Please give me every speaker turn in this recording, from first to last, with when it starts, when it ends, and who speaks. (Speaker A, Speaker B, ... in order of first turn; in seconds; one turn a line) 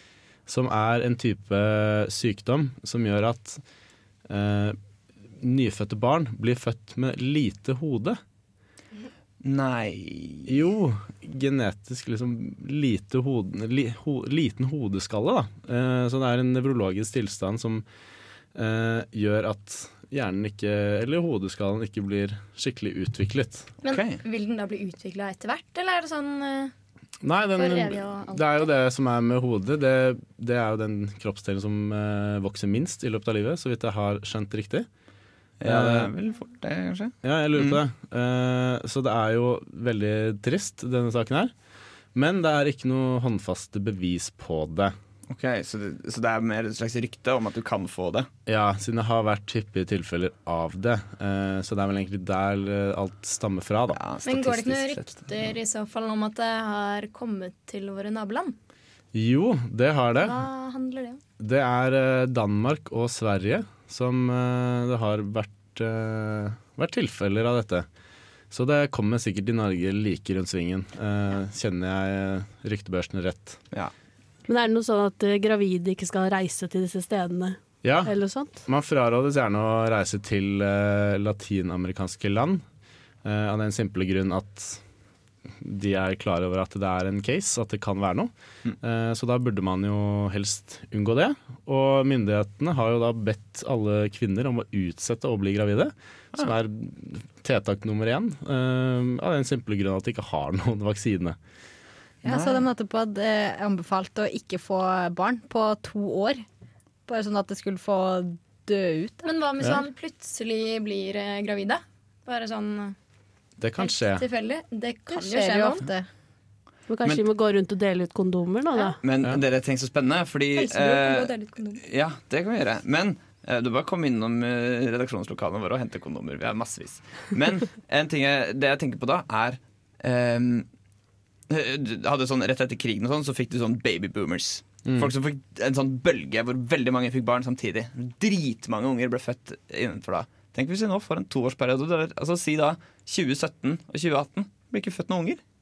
Speaker A: 0.5-3.6
Speaker A: 4.3-4.8
Speaker A: 5.3-8.2
Speaker B: 9.4-10.6
Speaker A: 10.5-17.8
Speaker A: 18.6-23.7
Speaker C: 23.8-26.7
Speaker B: 23.9-24.2
Speaker A: 27.2-34.9
Speaker C: 27.6-28.6
Speaker B: 35.6-37.8
Speaker A: 35.6-36.1
Speaker A: 37.2-41.5
Speaker A: 42.1-45.0
Speaker B: 45.3-48.3
Speaker A: 48.5-54.0
Speaker B: 53.9-55.5
Speaker C: 54.3-58.6
Speaker A: 59.1-60.4
Speaker C: 60.2-61.2
Speaker A: 61.4-67.9
Speaker A: 68.5-73.6
Speaker D: 74.5-78.6
Speaker A: 77.8-82.6
Speaker A: 83.2-84.8
Speaker A: 85.6-101.4
Speaker E: 102.2-106.5
Speaker B: 102.2-102.7
Speaker E: 107.1-109.3
Speaker C: 109.2-113.0
Speaker A: 113.6-114.3
Speaker C: 113.8-115.8
Speaker E: 115.1-116.1
Speaker D: 116.9-119.0
Speaker B: 119.0-130.7
Speaker C: 120.6-121.8
Speaker B: 131.5-145.4
Speaker A: 134.9-135.1